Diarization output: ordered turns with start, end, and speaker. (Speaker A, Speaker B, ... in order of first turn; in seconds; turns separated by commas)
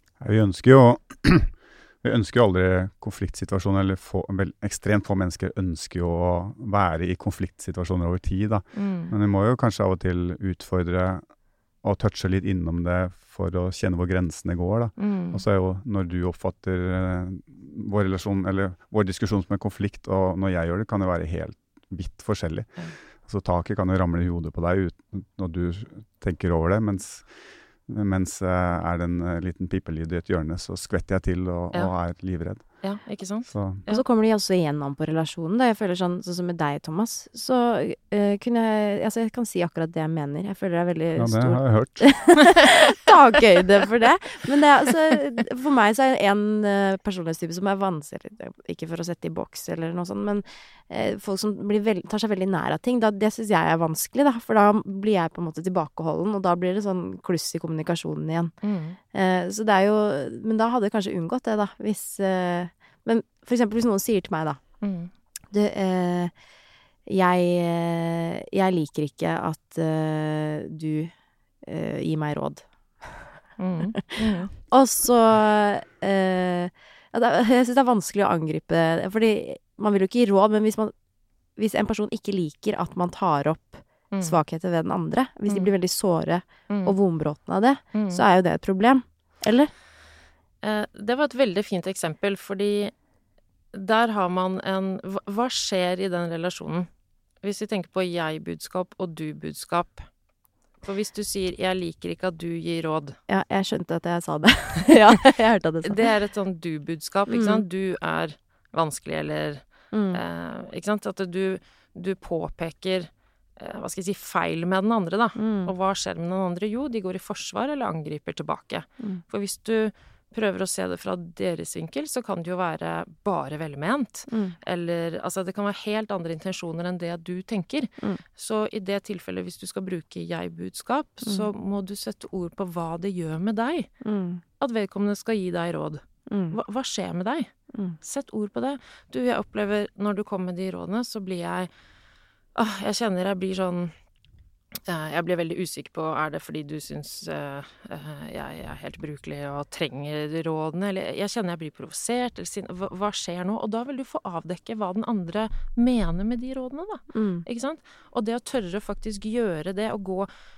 Speaker A: 0.2-11.2, Speaker B: 8.7-9.2, Speaker A: 11.8-22.7, Speaker B: 15.0-15.4, Speaker A: 23.2-27.3, Speaker A: 27.9-32.9, Speaker B: 31.7-32.0, Speaker B: 32.6-34.0, Speaker A: 33.5-33.8, Speaker C: 33.9-58.5, Speaker A: 41.2-42.2, Speaker B: 58.6-59.0, Speaker C: 59.1-64.6, Speaker B: 64.8-65.1, Speaker C: 65.5-66.3, Speaker C: 67.1-71.1, Speaker C: 71.6-73.2, Speaker B: 73.6-74.5, Speaker C: 74.5-80.9, Speaker C: 81.6-89.7, Speaker B: 84.1-84.4, Speaker B: 86.7-87.0, Speaker B: 87.9-88.2, Speaker B: 90.6-92.9, Speaker B: 93.7-96.9, Speaker B: 97.4-100.1, Speaker B: 100.8-103.2, Speaker C: 103.3-106.1, Speaker B: 105.8-133.9, Speaker C: 107.3-107.6, Speaker C: 109.9-110.2, Speaker C: 115.4-115.7, Speaker C: 124.3-124.5, Speaker C: 134.0-134.4, Speaker B: 134.6-137.5, Speaker C: 136.3-136.6, Speaker B: 138.0-141.7, Speaker B: 142.6-143.9, Speaker B: 144.9-160.3, Speaker C: 157.1-157.4